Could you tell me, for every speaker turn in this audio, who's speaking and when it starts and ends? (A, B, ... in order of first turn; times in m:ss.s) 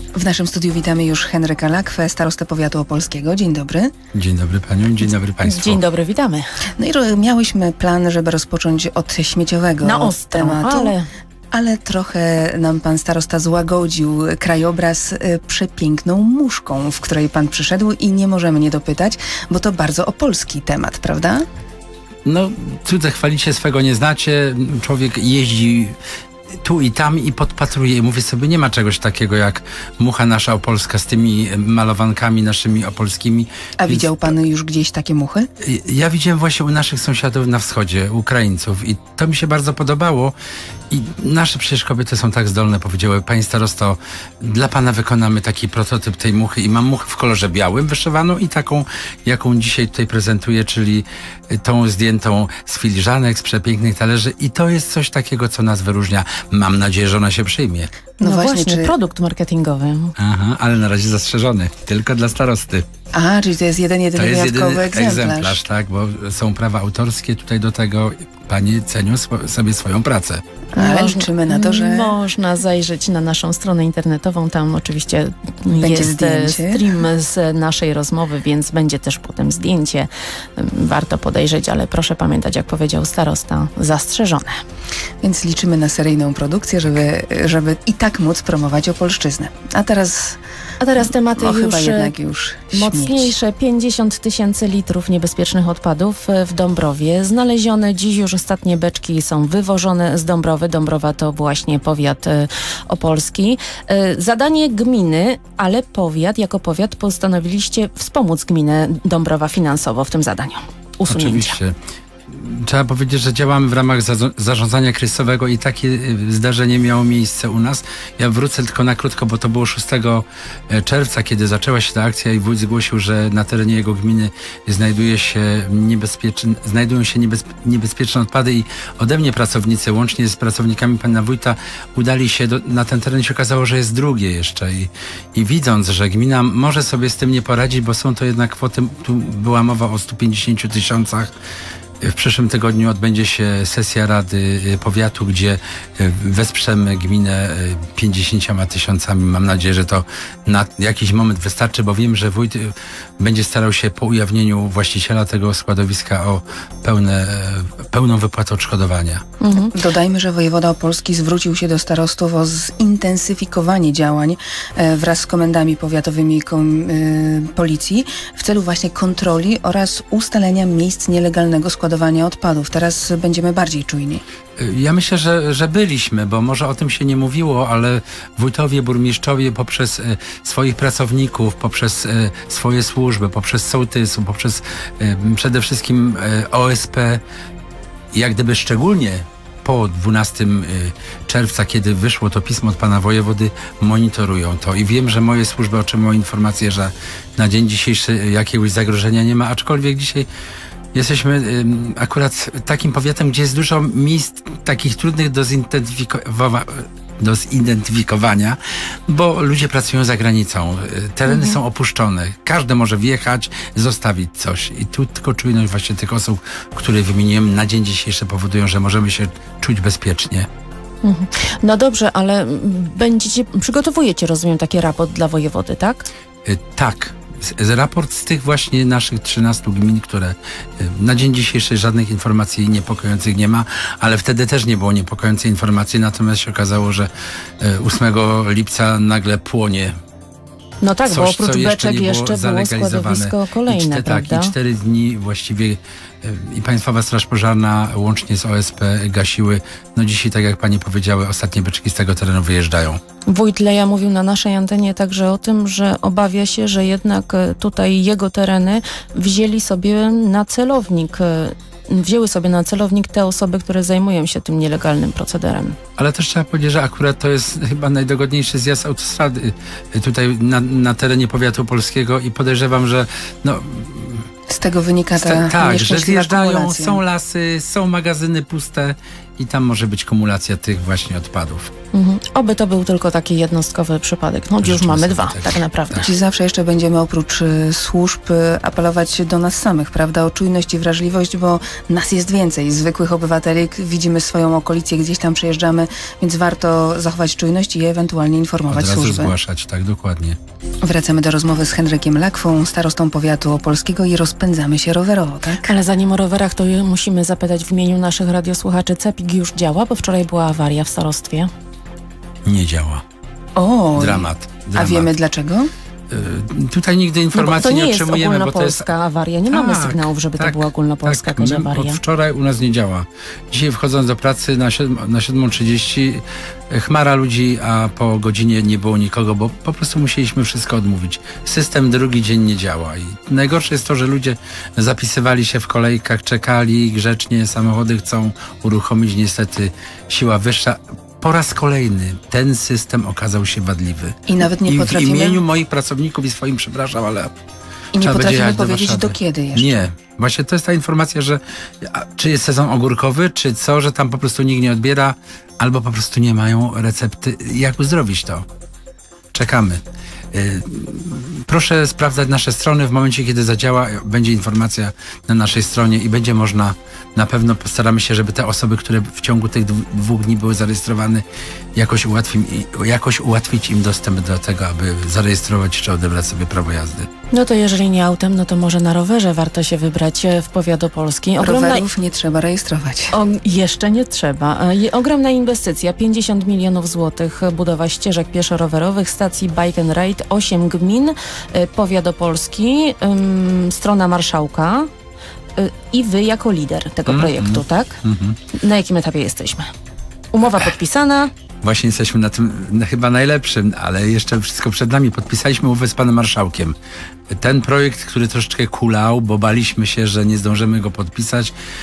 0:00.1-0:03.9 A
0:04.1-0:05.8 B
0:05.4-0:06.5 C
0:06.8-0:11.0 A
0:09.8-0:11.1 C
0:11.5-0:21.4 A
0:22.2-0:26.0 B
0:26.6-0:34.3 B
0:33.8-0:35.5 A
0:35.6-0:40.3 B
0:40.9-0:57.9 B
0:58.2-0:58.9 A
0:58.2-1:00.1 C
1:00.2-1:02.8 B
1:03.1-1:05.6 A
1:04.2-1:10.4 B
1:10.8-1:12.2 A
1:10.8-1:24.6 C
1:15.7-1:17.0 A
1:25.2-1:30.4 A
1:30.8-1:32.1 C
1:31.3-1:33.3 A
1:32.7-1:51.6 C
1:51.1-1:51.8 B
1:52.3-2:21.3 B
2:22.0-2:39.2 B
2:39.4-2:39.8 C
2:39.7-2:54.2 A
2:54.6-3:07.2 B
3:08.1-3:20.3 B
3:20.9-3:40.5 B
3:31.3-3:31.6 C
3:41.0-3:46.1 C
3:46.4-3:57.1 B
3:57.6-3:59.9 B
4:00.8-4:04.5 C
4:01.1-4:13.0 B
4:13.3-4:25.8 C
4:26.0-4:34.3 B
4:34.5-4:37.0 A
4:35.2-4:41.7 B
4:41.9-4:46.1 C
4:44.6-4:46.1 B
4:46.0-4:59.4 A
4:58.7-5:00.4 B
5:00.8-5:05.7 A
5:05.6-5:11.5 C
5:12.4-5:13.0 B
5:13.6-5:15.7 A
5:13.9-5:15.1 B
5:16.1-5:18.9 B
5:17.3-5:22.0 C
5:19.5-5:47.3 B
5:44.3-5:45.4 A
5:47.9-5:49.9 A
5:48.0-5:58.4 B
5:59.3-5:59.8 B
6:00.3-6:11.2 B
6:11.8-6:17.1 B
6:17.3-6:21.8 C
6:21.4-6:23.1 A
6:23.1-6:34.9 C
6:35.6-6:38.0 C
6:37.1-6:38.4 B
6:38.5-6:39.7 C
6:40.3-6:41.3 C
6:41.6-6:46.8 B
6:47.3-6:51.5 B